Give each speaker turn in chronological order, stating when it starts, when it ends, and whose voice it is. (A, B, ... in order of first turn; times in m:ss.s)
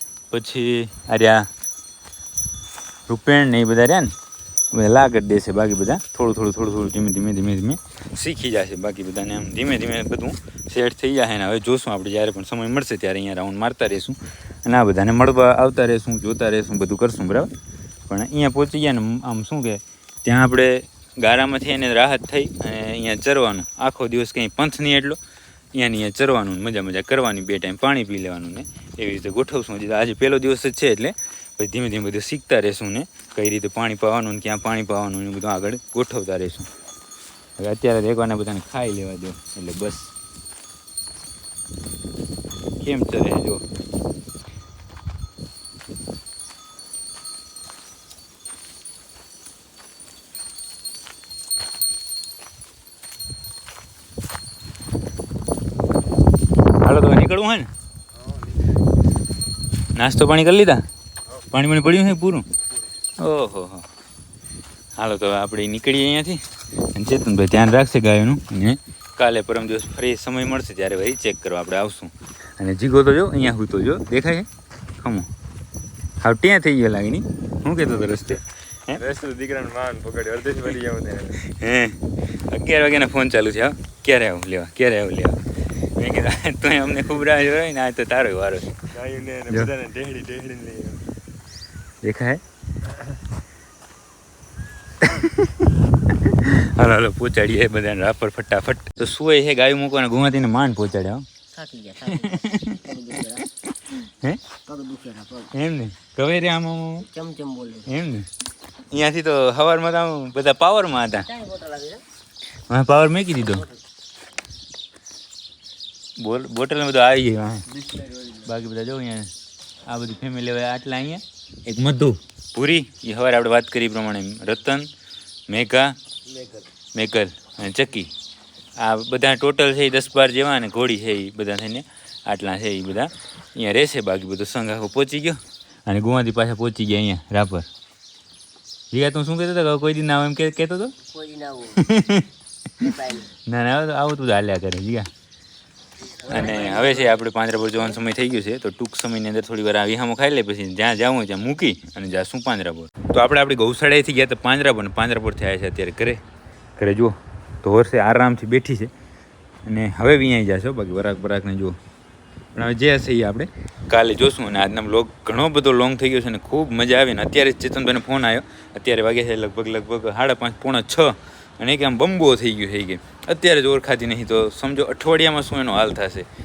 0:00.3-0:01.5 A
0:03.1-0:04.1 A
0:04.7-0:17.5 A
0:18.1-0:25.2 A
0:25.7-0:36.7 A
0:37.6-0:40.1 A
0:42.8-0:43.6 A
0:56.8-0:57.7 A
0:59.9-1:00.8 A
1:01.5-1:02.5 A
1:03.2-1:03.8 A
1:05.0-1:15.3 A
1:16.2-1:19.0 A
1:19.1-1:21.3 B
1:21.4-1:25.4 A
1:26.0-1:28.9 A
1:29.0-1:31.0 B
1:29.5-1:29.8 A
1:32.0-1:32.4 A
1:35.0-1:41.2 A
1:41.5-1:43.4 C
1:42.1-1:42.8 A
1:43.7-1:44.4 A
1:44.6-1:45.5 C
1:45.5-1:47.1 A
1:47.0-1:47.9 C
1:47.9-1:48.3 A
1:48.9-1:51.3 A
1:51.2-1:52.0 C
1:52.7-1:53.6 A
1:53.4-1:53.8 C
1:56.2-1:57.8 A
1:58.4-1:59.3 A
1:59.8-2:04.9 A
2:05.5-2:06.0 A
2:06.3-2:06.6 C
2:06.9-2:08.1 A
2:08.8-2:17.7 A
2:18.9-2:21.0 A
2:21.1-2:21.8 C
2:21.7-2:22.3 A
2:22.8-2:23.3 C
2:23.4-2:25.1 A
2:26.2-2:27.2 C
2:26.2-2:36.2 A
2:36.8-2:38.9 A
2:39.6-2:41.8 A
2:42.5-2:56.3 A